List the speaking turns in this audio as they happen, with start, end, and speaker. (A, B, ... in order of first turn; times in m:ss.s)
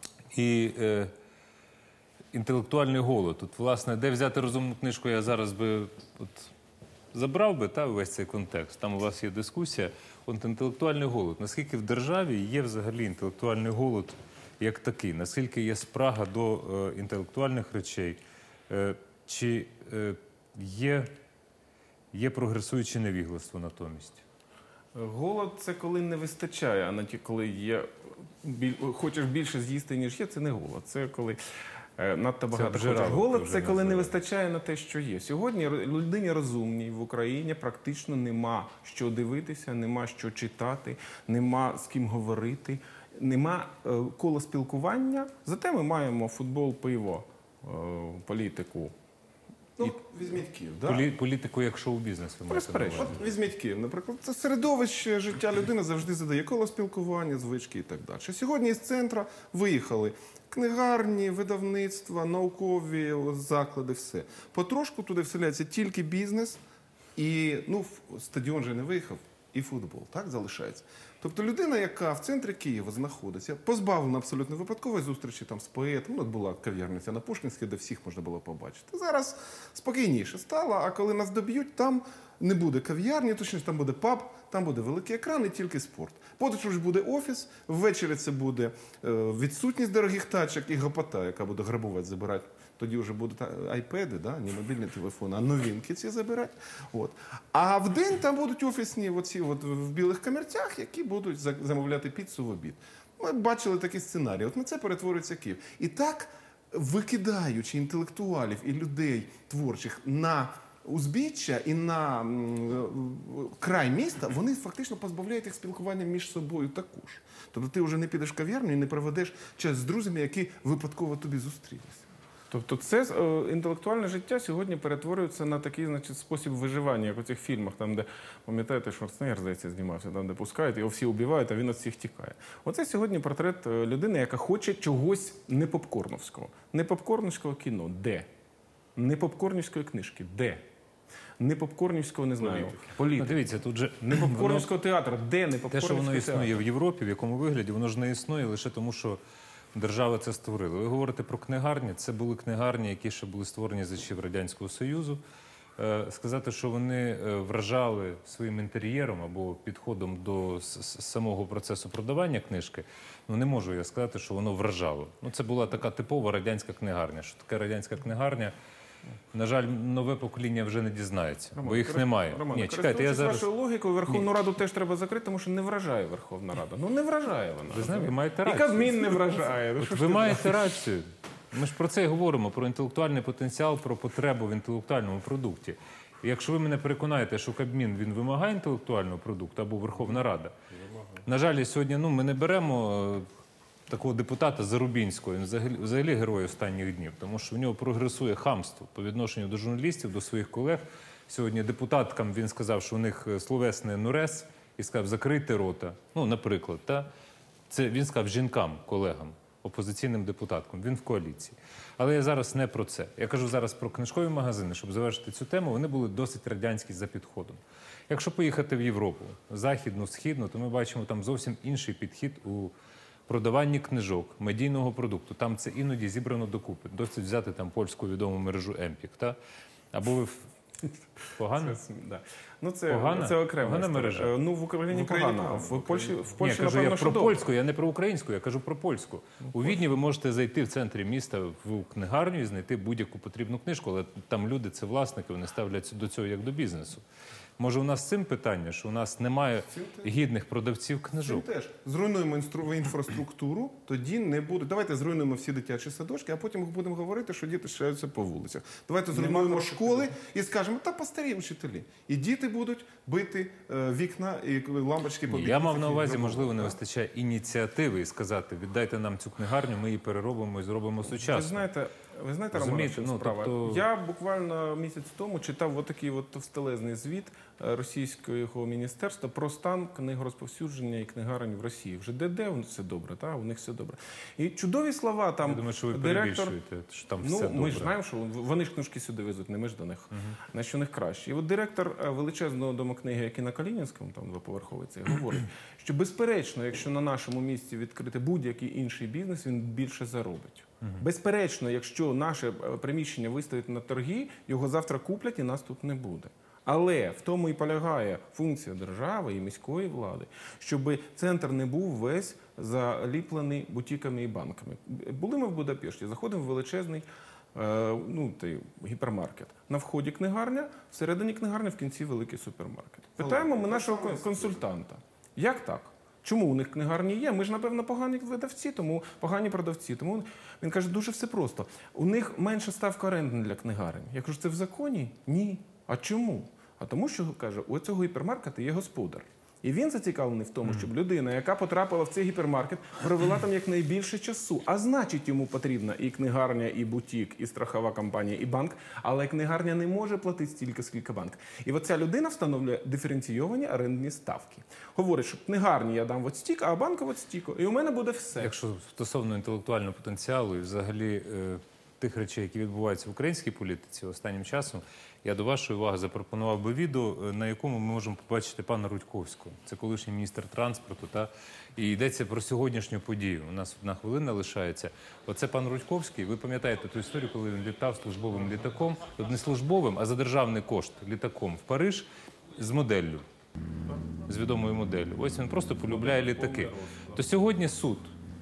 0:00.3-0:01.1 A
0:02.3-0:06.5 A
0:07.1-0:21.1 A
0:22.1-0:24.2 A
0:24.9-0:31.4 B
0:32.0-0:48.9 B
0:32.5-0:34.1 A
0:49.8-0:51.1 C
0:50.8-0:53.3 A
0:52.5-0:53.1 B
0:52.9-1:06.6 C
1:07.2-2:02.0 C
2:02.5-2:18.3 B
2:19.0-2:20.6 B
2:21.4-2:26.6 B
2:22.6-2:24.7 A
2:25.7-2:29.2 A
2:29.7-2:35.2 A
2:35.8-2:48.5 A
2:49.3-2:53.5 A
2:51.6-3:00.8 B
2:57.7-3:10.5 A
3:11.2-3:13.2 A
3:13.9-3:27.1 A
3:27.7-3:42.7 A
3:43.3-3:49.4 A
3:49.9-3:50.5 A
3:51.3-3:51.8 A
3:51.4-3:57.4 B
3:52.9-3:54.3 A
3:54.9-3:56.3 C
3:56.4-4:07.0 A
4:07.6-4:11.4 A
4:09.7-4:10.1 C
4:11.2-4:26.8 C
4:19.1-4:20.1 B
4:25.3-4:31.7 A
4:31.1-4:46.6 B
4:32.5-4:33.8 A
4:45.4-4:48.0 A
4:47.2-5:58.5 B
5:23.2-5:24.6 C
5:58.4-6:23.2 A
6:24.2-6:28.1 A
6:25.9-6:27.2 B